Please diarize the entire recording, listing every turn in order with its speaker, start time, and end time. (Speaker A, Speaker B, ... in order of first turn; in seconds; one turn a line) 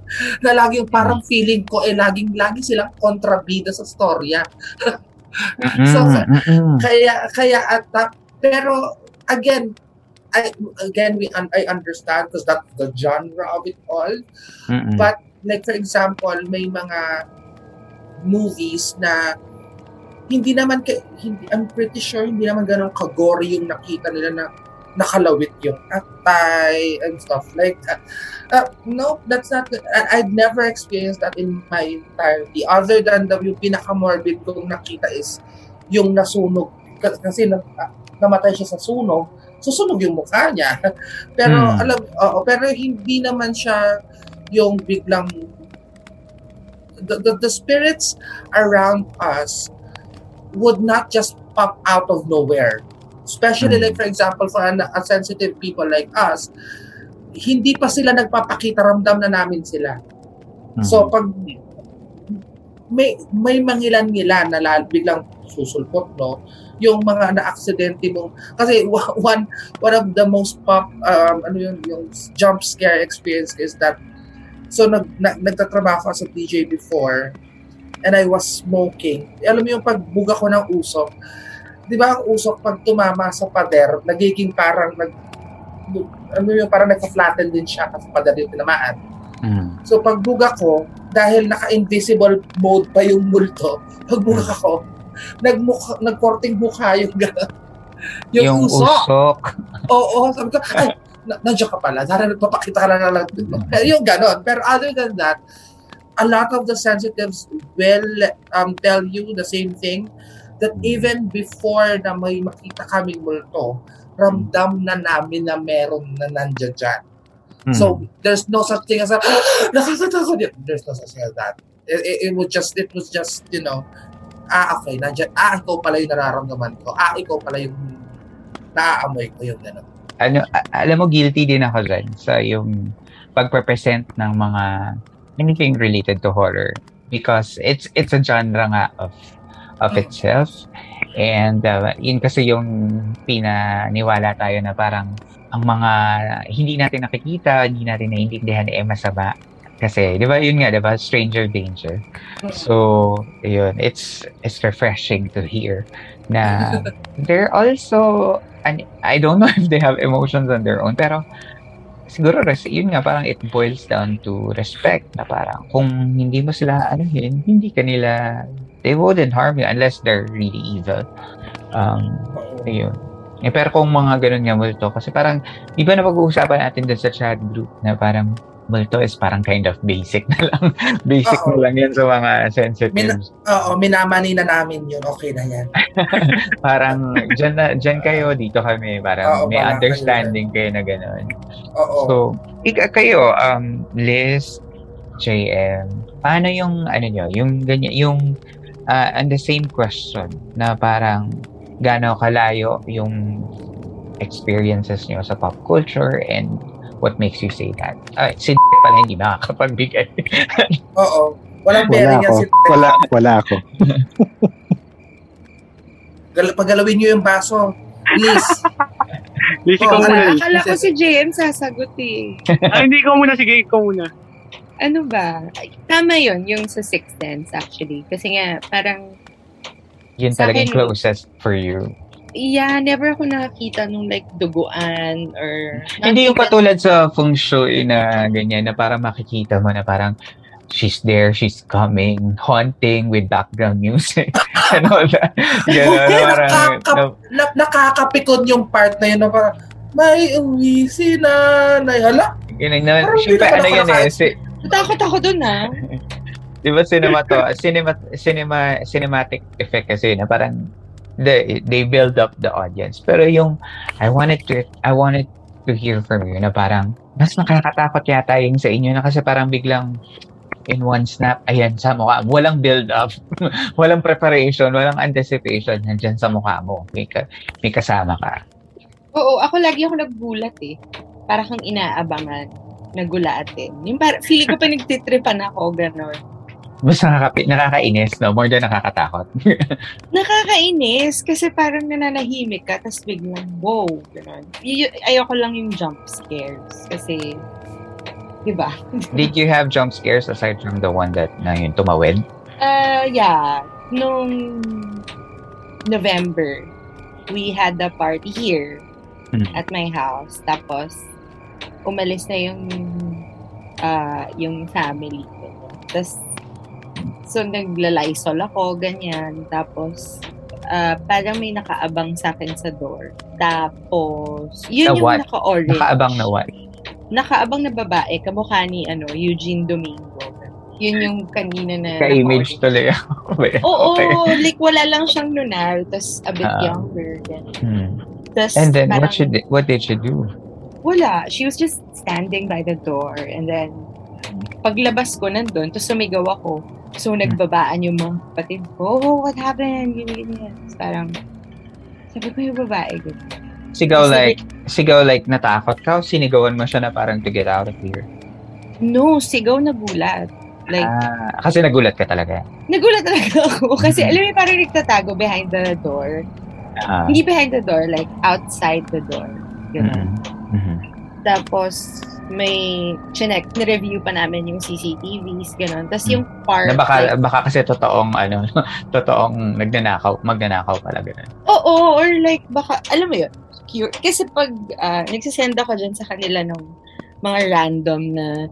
Speaker A: 0.4-4.9
Speaker B: 5.6-6.8
Speaker A: 5.7-8.8
Speaker A: 9.3-9.7
Speaker A: 10.3-14.2
Speaker B: 14.7-15.1
Speaker A: 15.0-17.0
Speaker A: 18.3-19.2
Speaker A: 20.3-24.4
Speaker A: 25.0-28.0
Speaker A: 28.5-35.4
Speaker A: 35.9-40.7
Speaker A: 41.4-43.8
Speaker B: 41.5-41.8
Speaker A: 44.5-45.3
Speaker A: 47.1-49.7
Speaker A: 50.5-56.5
Speaker B: 53.6-54.0
Speaker A: 57.4-59.9
Speaker B: 60.8-61.1
Speaker A: 60.8-61.5
Speaker A: 62.9-74.0
Speaker A: 74.7-77.3
Speaker A: 78.0-81.1
Speaker A: 81.9-85.1
Speaker A: 85.9-89.0
Speaker B: 89.5-89.8
Speaker A: 89.8-94.8
Speaker A: 95.4-97.5
Speaker A: 98.3-99.0
Speaker B: 98.4-99.4
Speaker A: 99.9-105.4
Speaker B: 103.5-103.9
Speaker A: 106.2-110.1
Speaker A: 110.6-117.0
Speaker B: 117.7-118.0
Speaker A: 117.7-123.8
Speaker A: 124.5-127.9
Speaker A: 128.8-129.8
Speaker B: 130.2-132.7
Speaker B: 133.3-134.6
Speaker B: 135.4-139.1
Speaker B: 139.8-140.5
Speaker B: 141.2-142.7
Speaker B: 143.3-145.9
Speaker B: 146.6-161.2
Speaker A: 156.5-156.9
Speaker B: 162.1-168.1
Speaker B: 168.8-171.0
Speaker B: 171.8-172.9
Speaker A: 172.4-172.7
Speaker B: 173.5-183.2
Speaker A: 181.3-181.7
Speaker A: 182.9-187.2
Speaker B: 186.0-191.3
Speaker A: 187.9-188.3
Speaker A: 189.3-190.3
Speaker A: 191.8-192.2
Speaker B: 192.1-194.6
Speaker B: 195.2-198.2
Speaker B: 198.9-201.2
Speaker B: 201.9-203.5
Speaker B: 204.2-210.7
Speaker A: 211.0-213.0
Speaker C: 211.9-213.6
Speaker C: 214.2-214.5
Speaker A: 216.3-218.6
Speaker D: 218.2-218.9
Speaker D: 219.7-220.4
Speaker A: 219.8-220.8
Speaker E: 219.9-222.2
Speaker B: 222.5-222.8
Speaker D: 222.7-224.1
Speaker E: 224.8-229.0
Speaker B: 230.2-231.9
Speaker E: 230.3-230.9
Speaker E: 232.4-236.5
Speaker B: 236.0-240.1
Speaker B: 240.7-247.1
Speaker A: 245.7-252.3
Speaker B: 252.6-254.3
Speaker A: 253.0-254.3
Speaker E: 254.6-255.7
Speaker B: 256.6-260.5
Speaker A: 257.1-257.4
Speaker B: 261.2-269.9
Speaker B: 270.7-273.1
Speaker B: 273.8-278.4
Speaker E: 279.1-280.7
Speaker E: 281.3-286.2
Speaker B: 286.9-289.3
Speaker E: 290.1-297.3
Speaker E: 298.4-299.2
Speaker B: 299.1-302.2
Speaker E: 302.6-305.0
Speaker E: 305.9-306.7
Speaker E: 307.3-308.8
Speaker E: 309.6-311.0
Speaker E: 311.9-313.2
Speaker E: 313.8-316.3
Speaker E: 317.3-320.1
Speaker E: 320.7-324.1
Speaker E: 324.7-326.2
Speaker B: 324.8-326.5
Speaker E: 327.1-332.6
Speaker B: 332.0-334.4
Speaker E: 333.7-337.4
Speaker B: 336.5-336.8
Speaker B: 337.6-337.9
Speaker E: 338.4-339.2
Speaker B: 338.6-340.3
Speaker E: 340.8-343.9
Speaker E: 344.6-351.1
Speaker E: 352.1-353.2
Speaker B: 353.8-358.0
Speaker E: 354.0-354.4
Speaker E: 358.8-360.9
Speaker B: 360.8-362.4
Speaker E: 362.7-366.2
Speaker B: 363.8-364.1
Speaker B: 366.8-367.2
Speaker E: 367.1-370.1
Speaker B: 369.8-370.8
Speaker E: 371.2-377.1
Speaker B: 376.1-378.4
Speaker B: 378.9-381.3
Speaker E: 381.5-386.6
Speaker E: 387.2-388.3